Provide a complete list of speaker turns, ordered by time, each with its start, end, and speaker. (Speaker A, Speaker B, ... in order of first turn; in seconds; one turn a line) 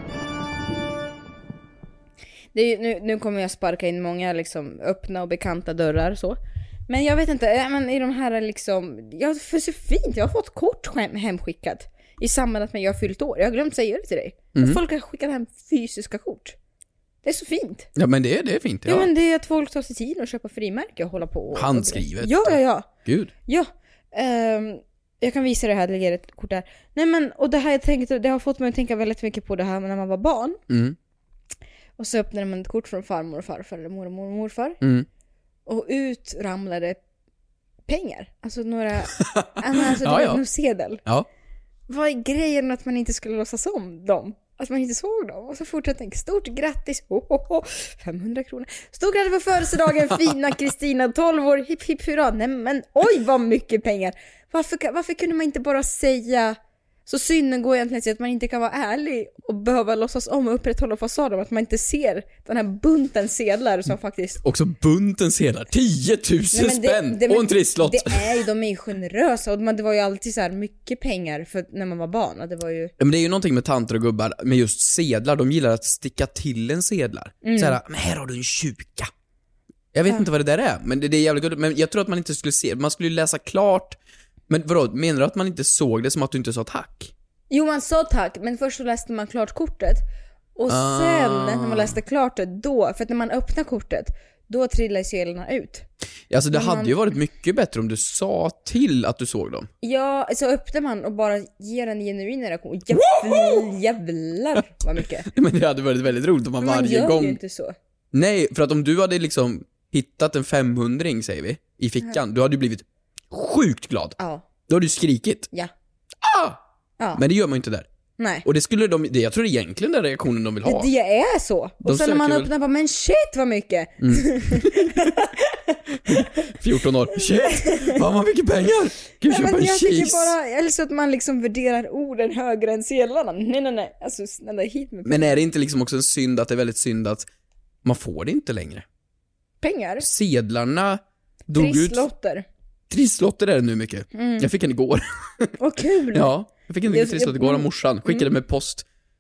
Speaker A: 2.5-16.6
Speaker B: 14.6-14.8
Speaker A: 17.2-17.9
Speaker B: 18.0-19.1
Speaker A: 18.9-22.9
Speaker B: 21.5-23.3
Speaker A: 23.5-30.6
Speaker B: 30.7-31.0
Speaker A: 32.0-34.8
Speaker B: 34.8-35.1
Speaker A: 35.7-37.0
Speaker A: 37.9-41.0
Speaker B: 39.2-40.4
Speaker A: 41.9-64.4
Speaker B: 64.4-68.4
Speaker A: 66.5-72.9
Speaker B: 73.0-79.1
Speaker A: 77.4-77.8
Speaker B: 79.9-84.0
Speaker B: 84.5-87.1
Speaker A: 87.5-90.0
Speaker A: 90.5-95.8
Speaker B: 90.7-92.0
Speaker B: 96.3-99.7
Speaker A: 96.5-97.0
Speaker A: 99.8-105.3
Speaker B: 102.9-103.7
Speaker B: 105.3-107.4
Speaker A: 106.6-107.8
Speaker B: 108.1-114.2
Speaker A: 114.2-114.4
Speaker B: 114.7-115.5
Speaker B: 116.2-116.6
Speaker B: 117.2-117.9
Speaker A: 118.2-118.5
Speaker B: 118.4-120.9
Speaker A: 120.6-126.5
Speaker B: 121.8-122.5
Speaker B: 124.0-125.1
Speaker B: 126.1-130.3
Speaker A: 127.2-128.0
Speaker A: 129.2-135.4
Speaker B: 135.1-137.3
Speaker B: 137.8-138.9
Speaker A: 139.6-140.1
Speaker B: 140.0-142.1
Speaker A: 141.5-142.5
Speaker B: 142.9-145.5
Speaker A: 144.1-144.5
Speaker A: 145.6-146.3
Speaker B: 146.1-148.8
Speaker A: 146.9-148.3